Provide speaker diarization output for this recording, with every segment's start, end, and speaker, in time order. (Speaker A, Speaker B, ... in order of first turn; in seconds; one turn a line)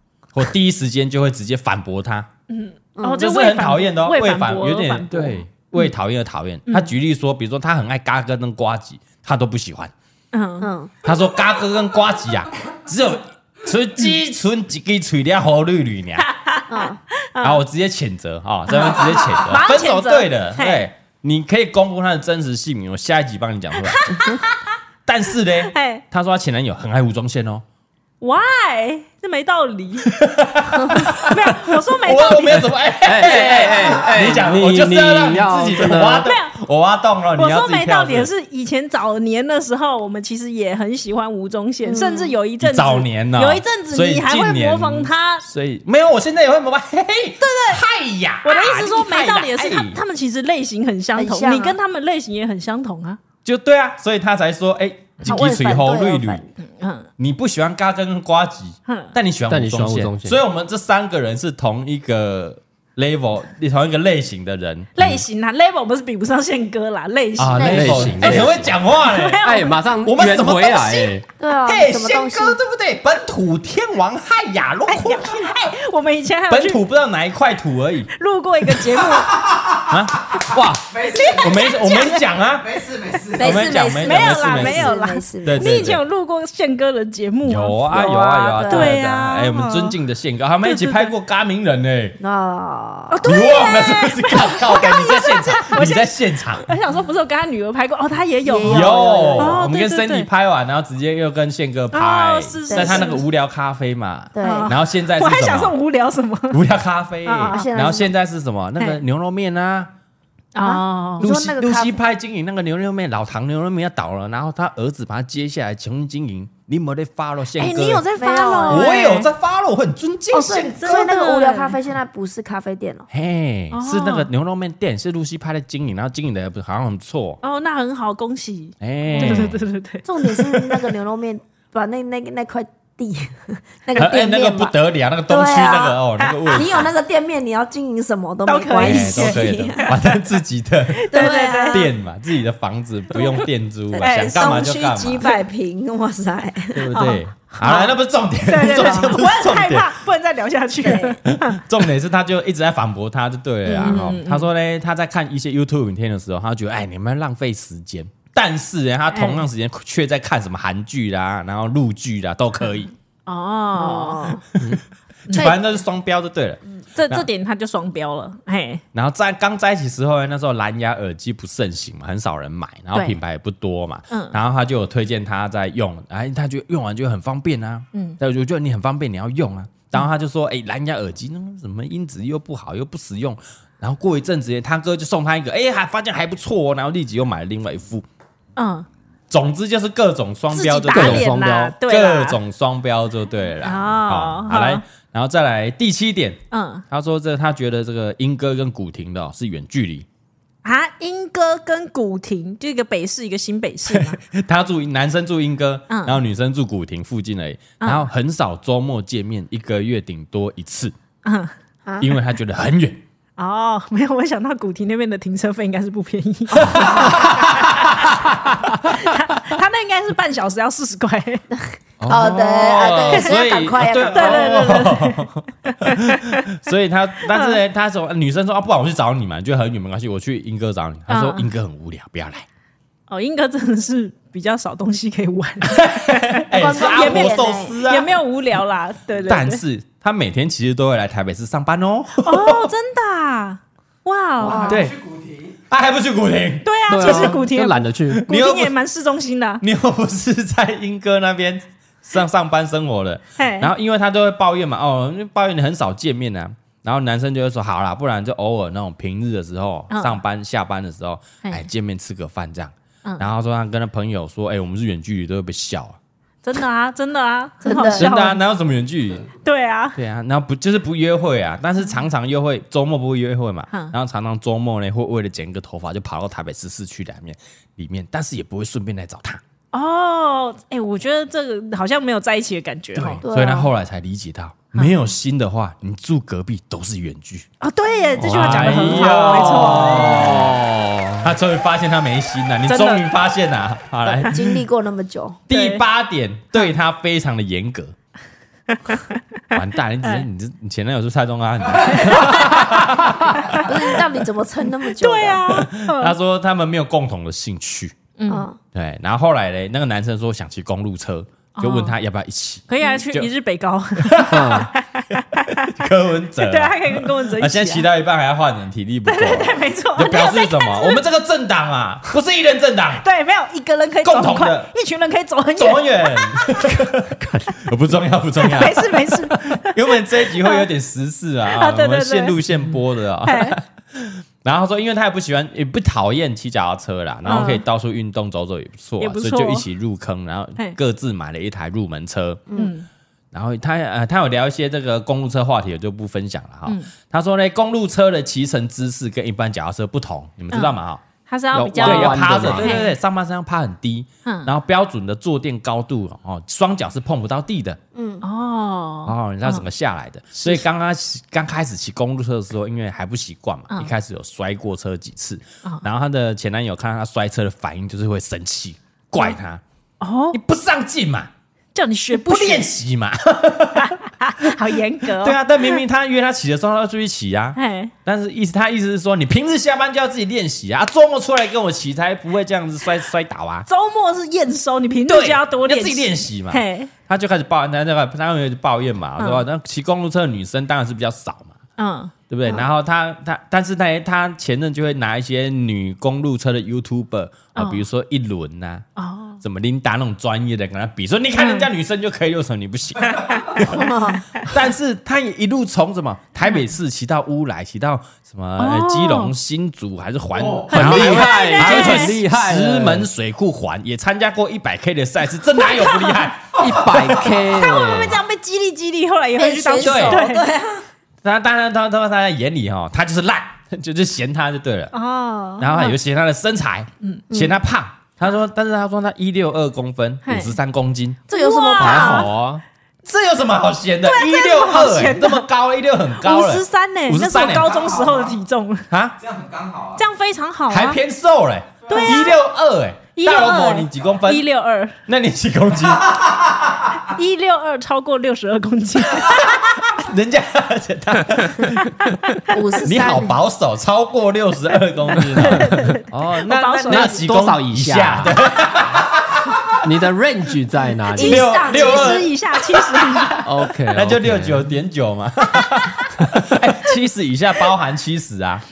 Speaker A: 0.3-2.3
Speaker B: 2.5-5.9
Speaker C: 3.0-3.3
Speaker A: 3.2-9.9
Speaker B: 6.7-6.9
Speaker B: 10.3-10.7
Speaker C: 10.6-10.9
Speaker A: 11.0-16.3
Speaker B: 16.3-16.7
Speaker C: 16.7-17.0
Speaker B: 17.2-17.6
Speaker A: 17.4-24.3
Speaker B: 18.7-20.9
Speaker B: 23.8-24.6
Speaker A: 25.1-27.6
Speaker B: 25.7-26.0
Speaker B: 28.2-30.2
Speaker A: 30.1-38.3
Speaker B: 30.9-32.8
Speaker D: 32.5-36.3
Speaker B: 36.2-36.5
Speaker B: 37.4-45.4
Speaker C: 41.8-42.3
Speaker A: 42.6-50.0
Speaker B: 47.4-47.8
Speaker B: 48.4-53.2
Speaker C: 51.1-51.8
Speaker A: 53.4-56.5
Speaker C: 55.2-56.4
Speaker B: 55.3-55.6
Speaker B: 56.7-57.1
Speaker A: 57.2-64.9
Speaker B: 58.9-59.1
Speaker D: 59.5-60.4
Speaker B: 65.0-69.7
Speaker A: 67.4-69.5
Speaker C: 67.6-67.9
Speaker D: 67.6-68.8
Speaker D: 69.4-71.2
Speaker A: 70.0-75.7
Speaker C: 71.4-72.6
Speaker B: 74.9-76.8
Speaker A: 76.5-78.1
Speaker B: 78.2-79.5
Speaker E: 79.4-79.8
Speaker A: 79.8-82.7
Speaker E: 80.3-83.9
Speaker B: 81.1-82.3
Speaker C: 83.3-85.9
Speaker A: 83.4-84.9
Speaker B: 83.9-90.0
Speaker A: 85.4-86.0
Speaker A: 87.4-92.2
Speaker C: 87.9-89.0
Speaker B: 90.6-91.1
Speaker C: 92.2-93.3
Speaker B: 93.1-100.3
Speaker A: 93.2-96.7
Speaker C: 98.4-99.6
Speaker A: 98.6-105.7
Speaker B: 101.9-103.2
Speaker C: 102.7-103.1
Speaker C: 104.3-104.7
Speaker B: 104.4-106.6
Speaker A: 106.5-109.9
Speaker B: 107.2-107.7
Speaker C: 107.5-108.1
Speaker B: 110.5-111.2
Speaker C: 110.6-112.0
Speaker A: 111.2-118.0
Speaker B: 117.6-119.3
Speaker C: 118.1-118.9
Speaker A: 118.7-121.1
Speaker C: 120.3-123.1
Speaker B: 120.8-121.8
Speaker A: 123.1-127.4
Speaker B: 123.7-124.3
Speaker B: 127.4-130.0
Speaker A: 128.8-129.6
Speaker C: 129.1-129.5
Speaker C: 130.0-134.8
Speaker A: 130.2-130.9
Speaker A: 134.0-136.9
Speaker C: 135.3-140.1
Speaker B: 136.2-136.8
Speaker B: 138.4-140.0
Speaker A: 138.8-145.3
Speaker B: 140.9-141.9
Speaker C: 141.1-141.9
Speaker B: 143.1-143.4
Speaker C: 143.9-146.9
Speaker B: 144.0-144.5
Speaker A: 146.7-149.9
Speaker B: 146.9-151.6
Speaker C: 148.7-149.1
Speaker C: 150.8-151.2
Speaker A: 151.3-162.9
Speaker C: 153.7-154.0
Speaker B: 153.7-154.5
Speaker B: 159.1-159.4
Speaker B: 163.3-164.3
Speaker C: 163.8-164.4
Speaker A: 164.6-167.2
Speaker B: 165.3-165.6
Speaker B: 166.9-168.8
Speaker A: 168.9-188.0
Speaker B: 172.9-173.2
Speaker B: 174.1-174.4
Speaker B: 177.9-178.2
Speaker B: 188.6-188.9
Speaker A: 189.3-196.4
Speaker B: 190.5-192.4
Speaker D: 190.9-191.7
Speaker B: 193.6-194.8
Speaker B: 196.5-196.8
Speaker A: 196.9-200.1
Speaker B: 200.6-204.2
Speaker A: 203.9-210.9
Speaker B: 205.9-206.2
Speaker B: 207.8-208.1
Speaker B: 211.2-211.5
Speaker C: 211.8-212.1
Speaker A: 212.0-213.0
Speaker B: 213.4-217.8
Speaker A: 216.5-219.0
Speaker B: 218.8-221.4
Speaker A: 222.0-232.4
Speaker C: 222.1-224.9
Speaker B: 224.1-226.4
Speaker B: 227.3-227.6
Speaker B: 231.1-231.5
Speaker B: 233.1-239.6
Speaker A: 235.6-238.1
Speaker C: 236.5-237.7
Speaker A: 239.2-242.7
Speaker B: 242.2-244.7
Speaker C: 244.4-244.8
Speaker E: 244.5-245.6
Speaker A: 244.7-244.9
Speaker A: 245.7-247.4
Speaker B: 246.6-249.6
Speaker D: 246.9-248.3
Speaker A: 248.1-248.7
Speaker A: 249.6-266.0
Speaker B: 253.4-253.7
Speaker B: 259.9-260.2
Speaker B: 266.4-268.4
Speaker C: 267.6-268.3
Speaker A: 267.9-269.3
Speaker B: 269.4-270.0
Speaker A: 269.9-279.4
Speaker B: 279.7-283.2
Speaker A: 282.9-287.5
Speaker C: 283.2-283.7
Speaker B: 287.6-290.5
Speaker A: 288.2-290.6
Speaker D: 288.3-291.3
Speaker A: 291.2-294.6
Speaker B: 292.6-293.1
Speaker C: 294.2-295.4
Speaker A: 295.5-297.9
Speaker B: 295.5-295.8
Speaker B: 298.7-299.2
Speaker A: 299.5-303.6
Speaker B: 301.8-303.7
Speaker C: 303.5-305.5
Speaker B: 305.0-306.1
Speaker A: 305.5-308.0
Speaker B: 308.2-308.5
Speaker C: 308.3-308.6
Speaker A: 308.7-313.3
Speaker B: 311.6-312.0
Speaker B: 312.7-315.7
Speaker A: 314.0-314.7
Speaker D: 314.3-314.7
Speaker A: 315.3-323.0
Speaker B: 316.4-317.9
Speaker B: 319.1-321.0
Speaker B: 323.0-326.8
Speaker A: 324.0-324.7
Speaker A: 325.6-342.5
Speaker B: 328.4-330.7
Speaker B: 331.5-332.4
Speaker B: 333.2-333.6
Speaker B: 337.2-337.6
Speaker B: 339.0-339.6
Speaker B: 342.5-342.9
Speaker A: 343.3-351.0
Speaker B: 350.5-352.9
Speaker D: 351.5-352.8
Speaker A: 351.8-357.8
Speaker B: 354.2-354.5
Speaker C: 357.9-358.2
Speaker B: 358.2-359.6
Speaker A: 359.1-369.6
Speaker B: 370.0-370.4
Speaker A: 370.3-371.3
Speaker B: 371.7-372.7
Speaker A: 372.1-374.0
Speaker B: 373.8-375.8
Speaker A: 375.1-383.7
Speaker B: 377.6-377.9
Speaker B: 383.7-386.9
Speaker A: 385.1-391.6
Speaker B: 389.2-389.4
Speaker B: 391.8-392.1
Speaker A: 392.3-398.9
Speaker B: 397.5-397.9
Speaker B: 399.0-399.4
Speaker A: 399.4-417.6
Speaker B: 401.4-401.7
Speaker C: 403.6-404.2
Speaker B: 408.6-409.3
Speaker E: 410.3-410.8
Speaker B: 410.7-412.2
Speaker D: 410.7-413.1
Speaker B: 415.6-416.2
Speaker D: 416.6-418.2
Speaker B: 417.4-420.4
Speaker C: 419.4-420.8
Speaker A: 419.8-420.2
Speaker A: 421.2-424.9
Speaker B: 424.9-426.0
Speaker A: 425.6-431.2
Speaker C: 427.3-427.6
Speaker B: 430.2-430.6
Speaker C: 431.3-432.3
Speaker B: 431.3-432.3
Speaker D: 431.8-432.6
Speaker A: 433.0-438.0
Speaker B: 434.0-435.4
Speaker B: 436.2-438.9
Speaker E: 437.6-438.3
Speaker A: 438.9-439.1
Speaker E: 439.2-440.1
Speaker B: 440.0-441.0
Speaker A: 440.7-444.4
Speaker E: 441.8-442.3
Speaker B: 441.9-442.4
Speaker B: 443.1-444.9
Speaker A: 445.1-446.4
Speaker E: 445.8-446.9
Speaker B: 447.0-449.8
Speaker A: 449.1-459.4
Speaker C: 452.5-453.4
Speaker D: 455.1-455.9
Speaker B: 455.4-457.2
Speaker D: 456.9-458.4
Speaker D: 459.8-461.5
Speaker C: 461.1-462.2
Speaker B: 461.1-463.4
Speaker A: 461.2-468.6
Speaker D: 463.4-464.7